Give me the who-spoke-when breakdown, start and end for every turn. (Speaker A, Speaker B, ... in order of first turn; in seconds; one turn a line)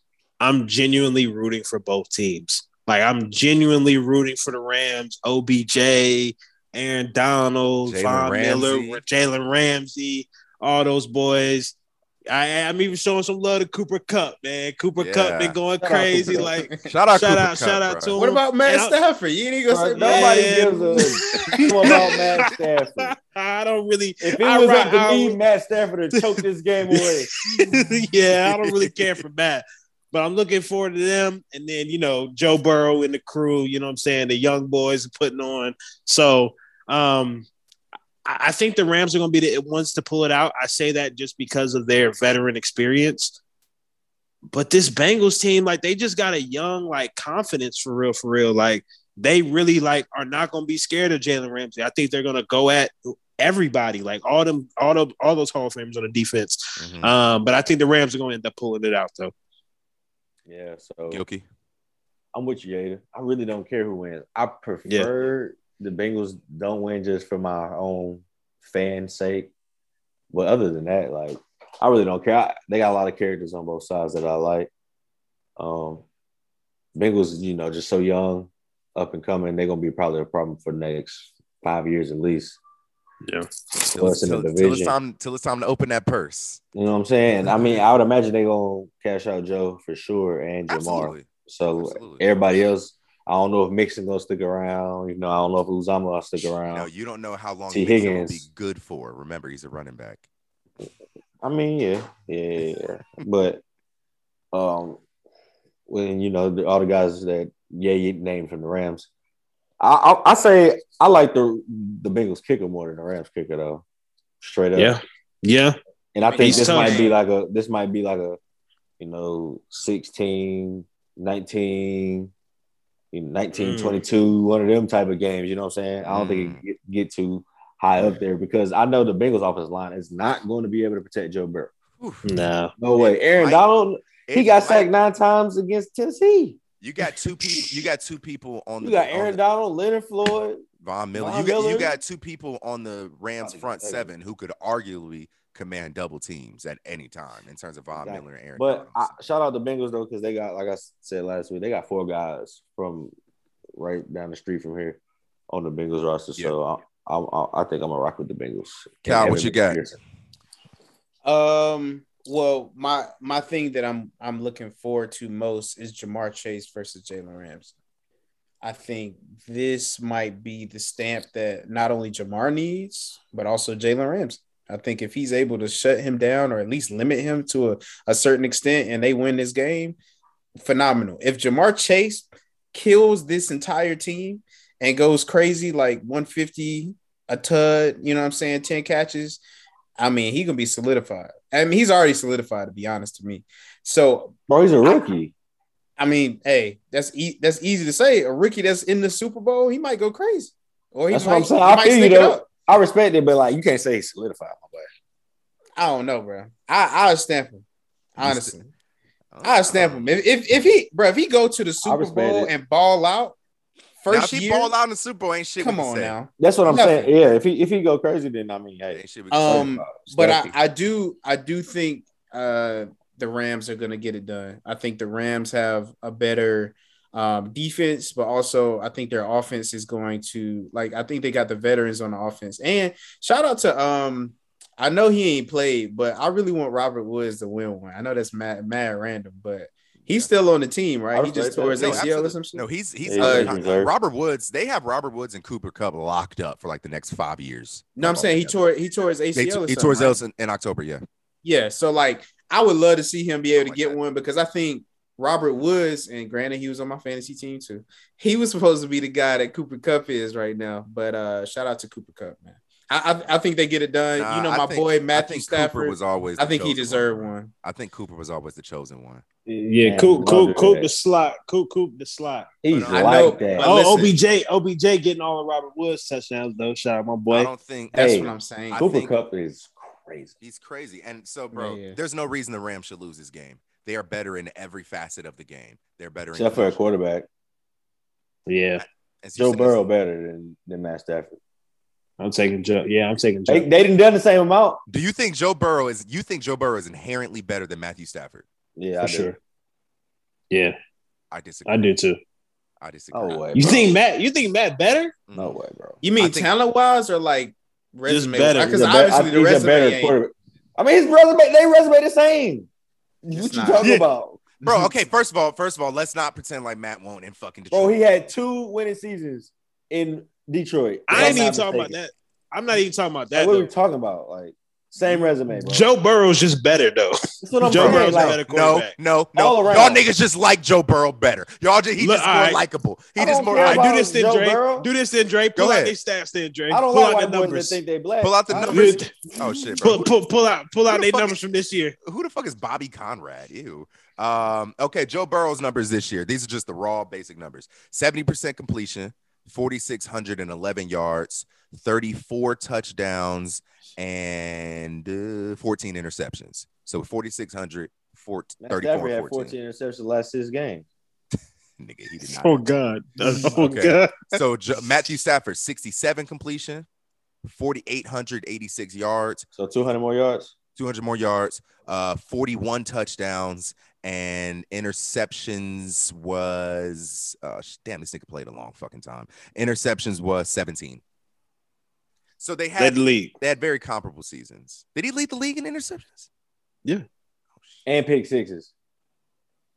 Speaker A: 0.4-11.8
Speaker B: 7.8-9.0
Speaker A: 12.3-18.9
Speaker B: 15.0-15.6
Speaker C: 15.8-16.5
Speaker B: 16.9-18.2
Speaker D: 18.1-20.8
Speaker C: 19.7-23.1
Speaker A: 20.0-22.5
Speaker A: 23.1-25.4
Speaker C: 24.2-27.3
Speaker A: 26.1-37.5
Speaker A: 38.2-43.4
Speaker A: 44.5-59.3
Speaker B: 56.8-57.1
Speaker C: 60.5-61.2
Speaker B: 61.1-61.5
Speaker C: 62.3-69.5
Speaker C: 70.3-74.7
Speaker C: 75.6-76.0
Speaker C: 77.0-82.6
Speaker B: 83.9-86.6
Speaker C: 84.0-85.0
Speaker C: 86.8-96.9
Speaker B: 90.7-92.2
Speaker B: 96.7-100.2
Speaker C: 97.7-98.4
Speaker C: 101.4-103.6
Speaker C: 104.5-105.0
Speaker C: 105.9-109.1
Speaker C: 109.8-113.8
Speaker C: 114.4-115.0
Speaker A: 114.8-115.8
Speaker C: 116.1-118.4
Speaker D: 116.2-117.2
Speaker A: 116.4-117.1
Speaker C: 119.0-122.3
Speaker C: 123.1-131.7
Speaker A: 123.5-124.0
Speaker B: 126.1-126.6
Speaker B: 132.0-132.2
Speaker A: 132.2-132.7
Speaker C: 132.8-136.6
Speaker B: 132.9-133.7
Speaker B: 134.3-134.9
Speaker B: 136.8-139.4
Speaker C: 138.8-141.9
Speaker B: 140.8-149.2
Speaker C: 143.4-144.1
Speaker C: 148.0-153.1
Speaker C: 153.8-160.0
Speaker B: 159.1-159.8
Speaker D: 161.2-167.7
Speaker D: 168.6-180.0
Speaker D: 180.6-189.4
Speaker D: 190.0-195.1
Speaker C: 194.5-195.3
Speaker D: 196.0-202.5
Speaker C: 201.1-204.9
Speaker D: 205.8-207.6
Speaker D: 208.2-208.7
Speaker B: 208.2-208.5
Speaker B: 209.3-210.1
Speaker D: 209.4-213.4
Speaker C: 211.8-212.5
Speaker D: 214.0-214.7
Speaker B: 214.1-216.2
Speaker D: 215.6-217.1
Speaker C: 216.4-220.5
Speaker B: 218.9-219.7
Speaker D: 219.3-242.7
Speaker C: 241.1-242.1
Speaker B: 241.8-248.6
Speaker C: 243.1-243.9
Speaker D: 243.2-243.6
Speaker D: 248.0-250.2
Speaker B: 249.3-251.0
Speaker D: 251.4-267.5
Speaker B: 253.6-254.0
Speaker B: 264.2-269.2
Speaker A: 269.5-272.5
Speaker C: 269.8-270.9
Speaker C: 272.6-273.7
Speaker B: 272.7-273.6
Speaker D: 272.9-274.1
Speaker A: 273.6-277.5
Speaker B: 277.3-278.2
Speaker C: 277.9-280.4
Speaker D: 277.9-278.9
Speaker B: 278.7-279.1
Speaker B: 280.4-286.8
Speaker D: 281.5-282.0
Speaker C: 286.3-287.3
Speaker A: 288.5-288.8
Speaker B: 288.8-289.8
Speaker C: 289.4-291.4
Speaker A: 292.2-293.7
Speaker C: 293.5-294.8
Speaker B: 294.9-298.4
Speaker C: 298.8-299.4
Speaker A: 299.0-299.4
Speaker B: 301.3-301.9
Speaker A: 301.7-302.2
Speaker B: 302.8-303.8
Speaker C: 303.1-304.0
Speaker A: 303.6-305.1
Speaker B: 305.3-305.6
Speaker C: 305.3-306.0
Speaker D: 306.0-310.2
Speaker B: 306.2-306.5
Speaker A: 308.1-308.9
Speaker C: 308.6-312.7
Speaker C: 313.2-314.4
Speaker D: 313.3-313.9
Speaker B: 314.6-318.0
Speaker D: 314.6-314.9
Speaker C: 317.7-321.9
Speaker A: 321.1-323.7
Speaker C: 323.3-325.9
Speaker A: 325.6-328.9
Speaker C: 327.4-328.4
Speaker B: 327.7-333.9
Speaker C: 329.4-330.0
Speaker A: 332.0-332.6
Speaker C: 333.2-334.9
Speaker A: 333.5-337.8
Speaker B: 335.6-335.9
Speaker C: 336.7-339.1
Speaker B: 338.2-340.1
Speaker A: 338.7-341.9
Speaker B: 340.9-341.4
Speaker B: 342.0-359.6
Speaker C: 358.6-360.9
Speaker B: 361.8-362.6
Speaker A: 362.4-364.2
Speaker B: 363.3-366.9
Speaker B: 367.4-369.5
Speaker C: 369.6-370.5
Speaker B: 370.8-381.0
Speaker B: 382.4-386.3
Speaker A: 382.8-383.3
Speaker C: 387.9-388.7